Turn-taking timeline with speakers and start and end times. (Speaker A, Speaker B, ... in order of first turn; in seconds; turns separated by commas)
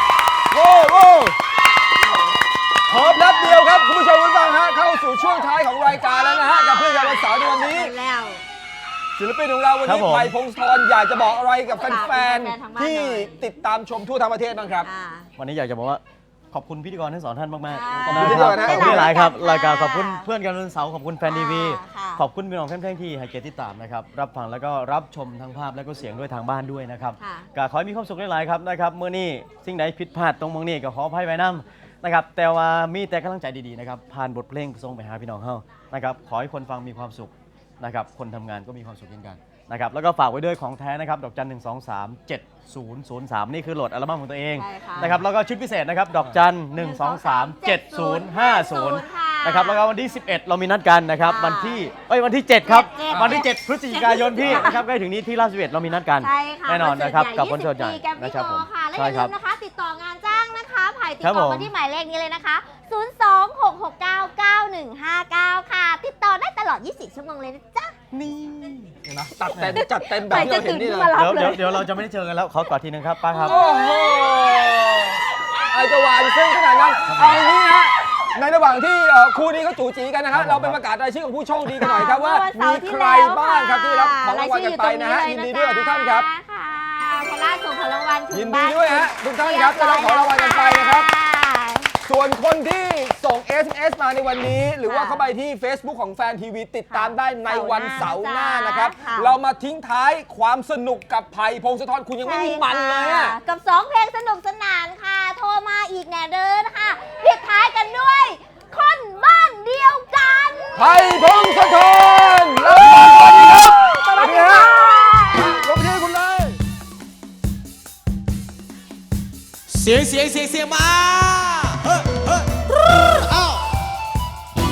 Speaker A: 0.5-1.4, Speaker A: 2.9-7.9, Speaker B: 3.0-3.5, Speaker B: 5.9-8.4, Speaker A: 9.2-14.9, Speaker C: 9.9-10.3, Speaker B: 11.7-13.4, Speaker B: 14.8-15.3, Speaker C: 15.4-16.0, Speaker C: 16.5-59.3, Speaker B: 17.7-20.3, Speaker A: 18.0-19.2, Speaker B: 21.2-22.2, Speaker B: 27.2-27.5, Speaker B: 44.6-45.2, Speaker B: 46.7-49.9, Speaker B: 51.2-51.9, Speaker B: 52.6-54.8, Speaker B: 56.2-67.9, Speaker C: 61.2-61.7, Speaker C: 68.1-68.9, Speaker A: 69.1-71.2, Speaker B: 69.6-71.9, Speaker C: 71.2-73.4, Speaker B: 73.3-75.1, Speaker A: 73.4-86.3, Speaker C: 80.3-80.8, Speaker B: 81.8-91.9, Speaker A: 88.3-91.1, Speaker A: 92.0-103.4, Speaker B: 94.8-95.3, Speaker B: 96.9-99.3, Speaker B: 102.2-112.1, Speaker A: 110.8-116.6, Speaker B: 112.7-113.1, Speaker B: 113.8-115.7, Speaker D: 119.7-121.8